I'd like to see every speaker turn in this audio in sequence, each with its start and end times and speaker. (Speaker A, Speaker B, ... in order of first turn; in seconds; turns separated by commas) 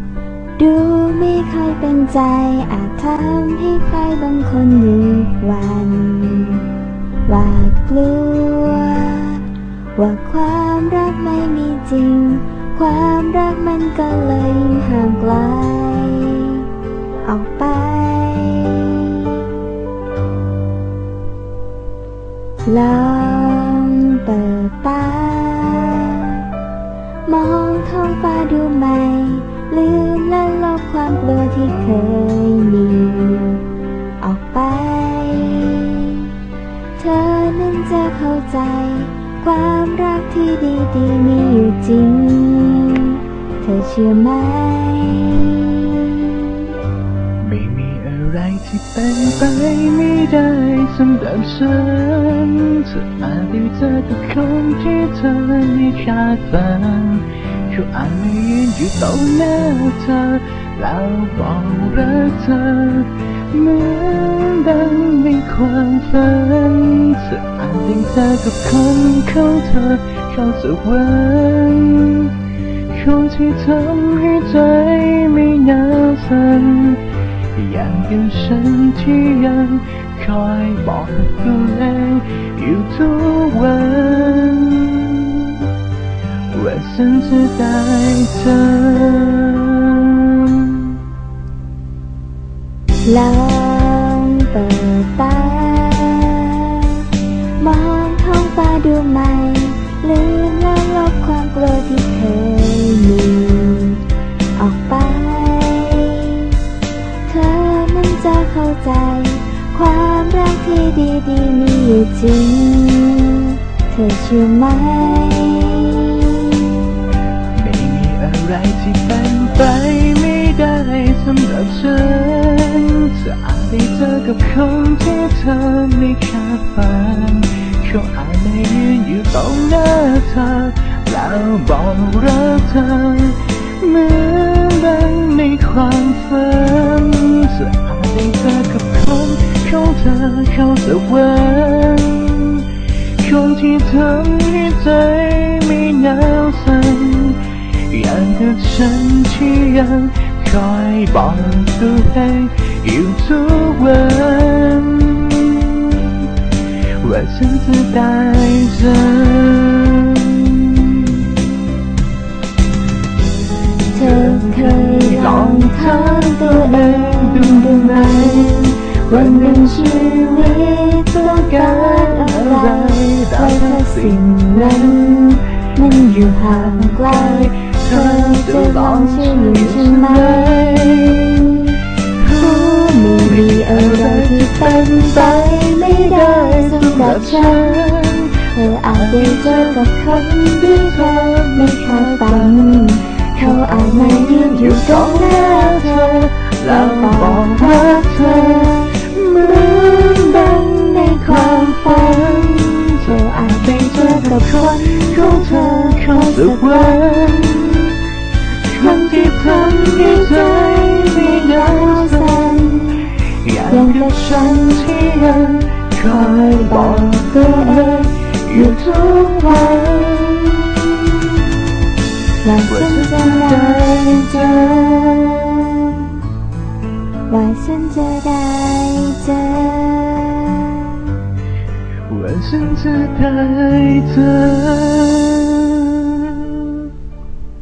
Speaker A: 0.6-6.7, Speaker A: 7.2-16.7, Speaker A: 17.2-19.5, Speaker A: 22.6-26.4, Speaker A: 27.2-33.6, Speaker A: 34.2-36.3, Speaker A: 37.0-46.3, Speaker B: 47.4-72.3, Speaker B: 72.9-85.7, Speaker B: 86.5-91.0, Speaker A: 93.0-97.0, Speaker A: 97.6-104.0, Speaker A: 104.5-106.6, Speaker A: 107.3-116.8, Speaker B: 117.5-142.7, Speaker B: 143.2-156.3, Speaker B: 157.0-161.4, Speaker B: 163.9-175.4, Speaker A: 163.9-187.8, Speaker B: 176.0-181.2, Speaker B: 182.2-208.0, Speaker A: 188.5-207.8, Speaker B: 208.6-220.6, Speaker A: 208.7-213.1, Speaker A: 213.7-221.2, Speaker A: 222.4-226.2, Speaker B: 222.7-225.4, Speaker A: 227.3-231.1, Speaker B: 232.1-236.9